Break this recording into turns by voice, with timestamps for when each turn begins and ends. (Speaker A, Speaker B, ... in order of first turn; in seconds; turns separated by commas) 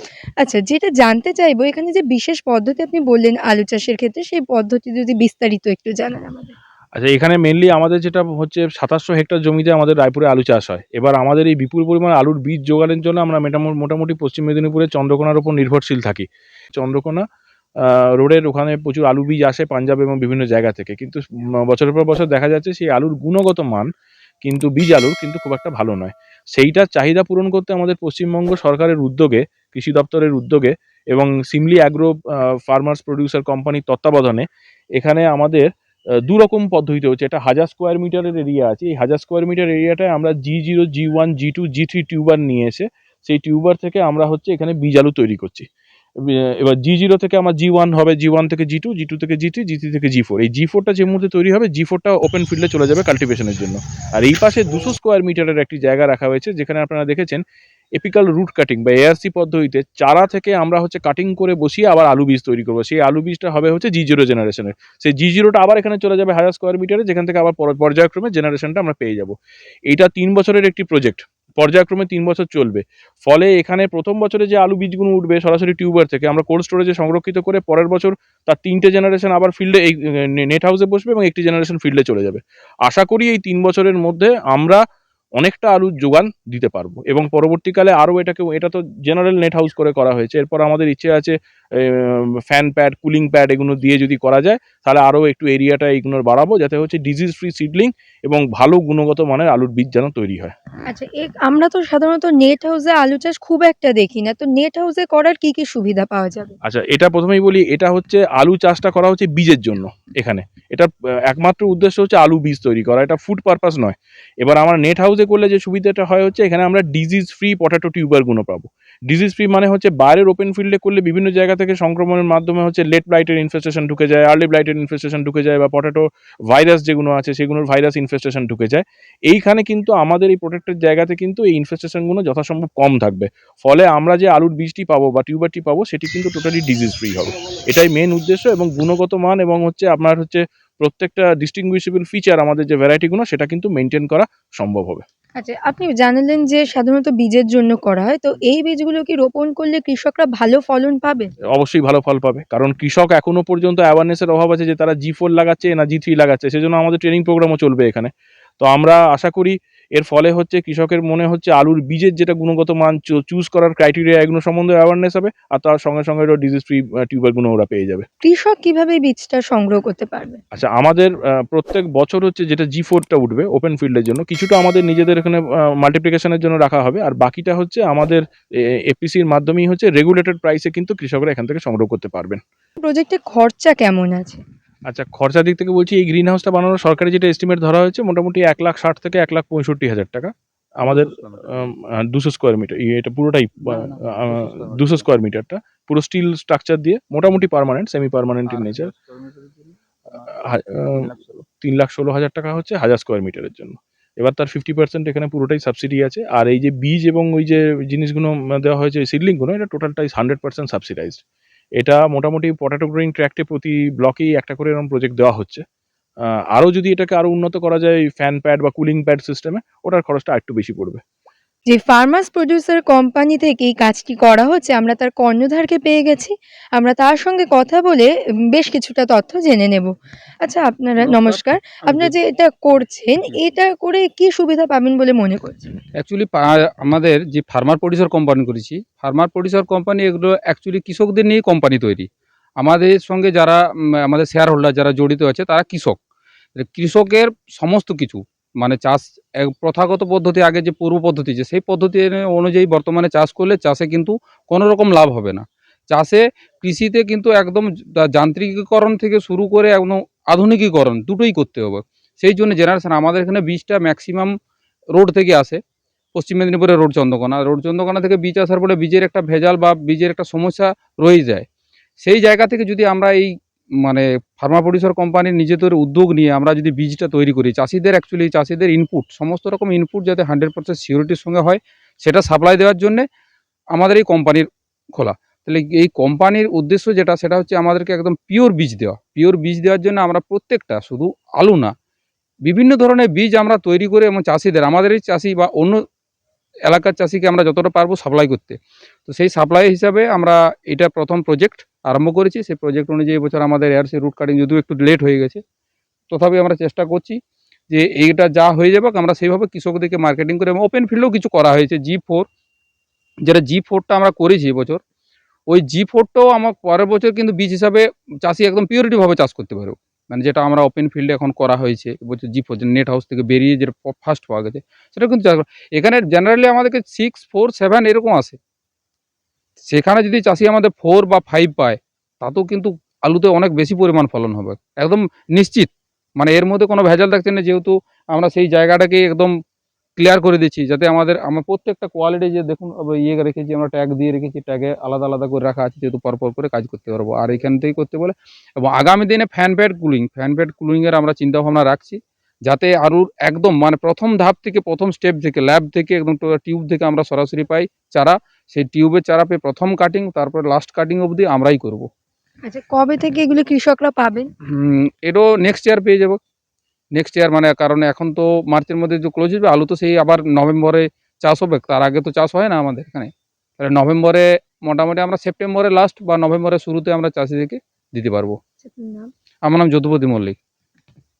Speaker A: 0.4-6.5, Speaker B: 7.0-17.2, Speaker B: 17.8-23.9, Speaker B: 24.4-34.5, Speaker B: 35.0-35.7, Speaker B: 36.3-45.7, Speaker B: 46.2-57.4, Speaker B: 58.0-69.3, Speaker B: 69.9-84.8, Speaker B: 85.4-100.5, Speaker A: 100.9-106.5, Speaker B: 106.6-145.0, Speaker A: 145.4-151.3, Speaker B: 151.5-158.1, Speaker B: 158.6-168.1, Speaker A: 168.2-170.4, Speaker B: 170.5-178.2, Speaker B: 178.9-182.4, Speaker A: 182.8-184.4, Speaker B: 184.9-198.9, Speaker C: 190.8-191.7, Speaker C: 193.7-195.1, Speaker C: 198.4-201.4, Speaker B: 200.4-201.1, Speaker B: 201.6-211.2, Speaker B: 211.8-215.6, Speaker B: 216.5-221.0, Speaker A: 221.7-229.9, Speaker A: 230.4-235.7, Speaker C: 231.0-232.1, Speaker C: 236.0-242.1, Speaker C: 242.6-246.0, Speaker C: 246.6-264.3, Speaker C: 264.9-265.6, Speaker C: 266.1-271.4, Speaker C: 272.0-273.3, Speaker C: 273.8-283.0, Speaker C: 283.7-291.7, Speaker C: 292.4-295.8, Speaker C: 296.7-305.4, Speaker C: 306.1-307.2, Speaker C: 307.7-312.2, Speaker C: 313.3-314.8, Speaker C: 315.5-328.4, Speaker C: 329.7-339.3, Speaker C: 340.0-361.9, Speaker A: 362.4-364.3, Speaker C: 364.5-366.2, Speaker C: 366.9-378.4, Speaker A: 378.6-379.1, Speaker C: 379.4-380.4